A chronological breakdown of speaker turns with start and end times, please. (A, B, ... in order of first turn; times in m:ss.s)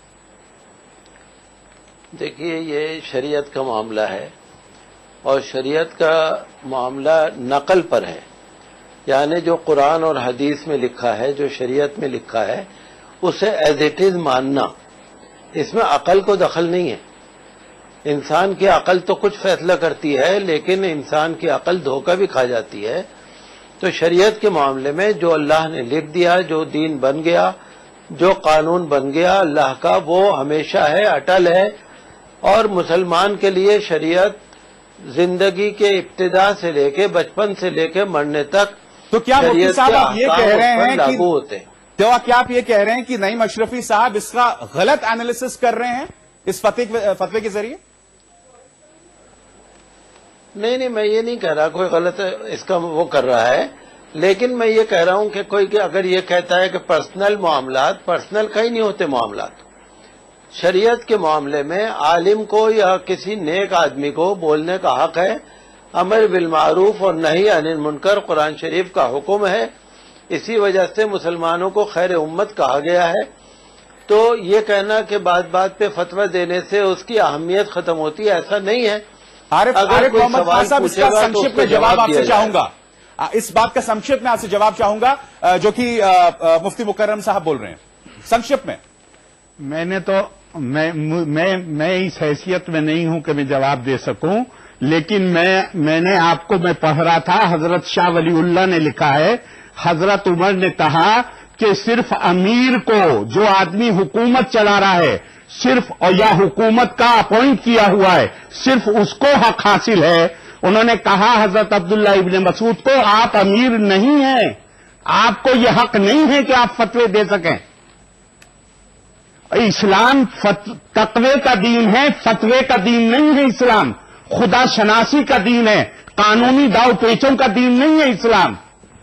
0:02.2-0:04.3 A
0:05.2-0:08.2 A
0:09.1-0:12.6 A
0:13.2-0:14.7 A
0:15.6-0:17.0 A
0:18.0-0:23.0 A
0:23.8-0:27.5 A
0:28.1-0:31.7 A
0:32.4-0:34.4 A
0:35.1-0:38.8 A
0:39.1-0:41.2 B
0:39.4-0:41.6 A
0:42.0-0:47.8 B
0:50.6-0:59.6 A
1:00.5-1:05.4 A
1:06.0-1:09.7 A
1:10.3-1:13.2 A
1:14.1-1:19.0 A
1:19.5-1:28.8 B
1:19.7-1:22.6 A
1:29.6-1:54.6 C
1:55.1-1:57.6 C
1:59.5-2:08.6 C